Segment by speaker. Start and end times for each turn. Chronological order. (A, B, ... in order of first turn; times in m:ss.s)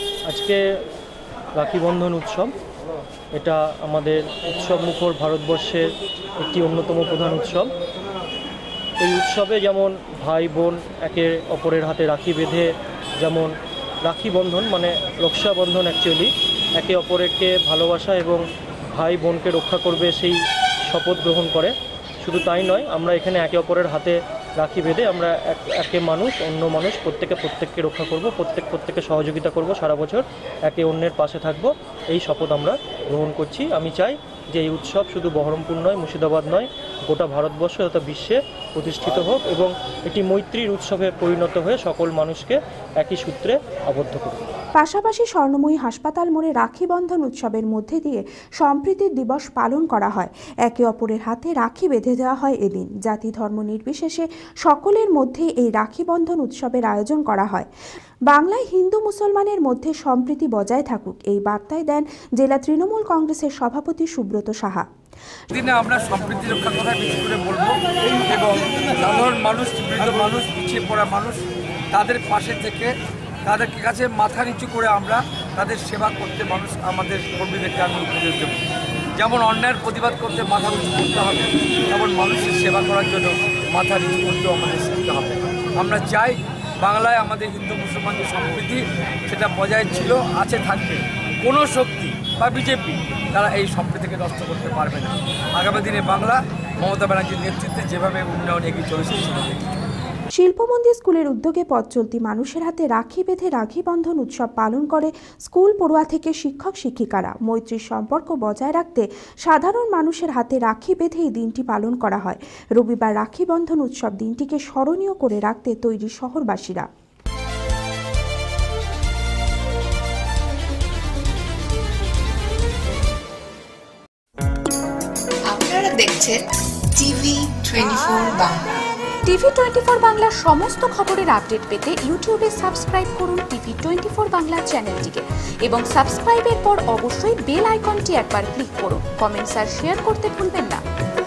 0:00.3-0:00.6 A
0:01.5-0:02.5 A
0:03.4-0:05.9 A
0:06.4-0:07.7 A
0:09.0-0:12.7 A
0:13.2-0:13.5 A
0:14.0-0:18.4 A
0:18.9-0:20.4 A
0:20.9-0:44.4 A
0:44.8-0:57.7 B
0:58.3-1:04.8 B
1:05.5-1:11.4 C
1:11.9-1:12.9 C
1:13.4-1:18.6 C
1:19.2-1:39.8 C
1:40.3-1:56.9 B
2:05.5-2:06.4 D
2:07.0-2:08.6 D
2:09.2-2:20.8 E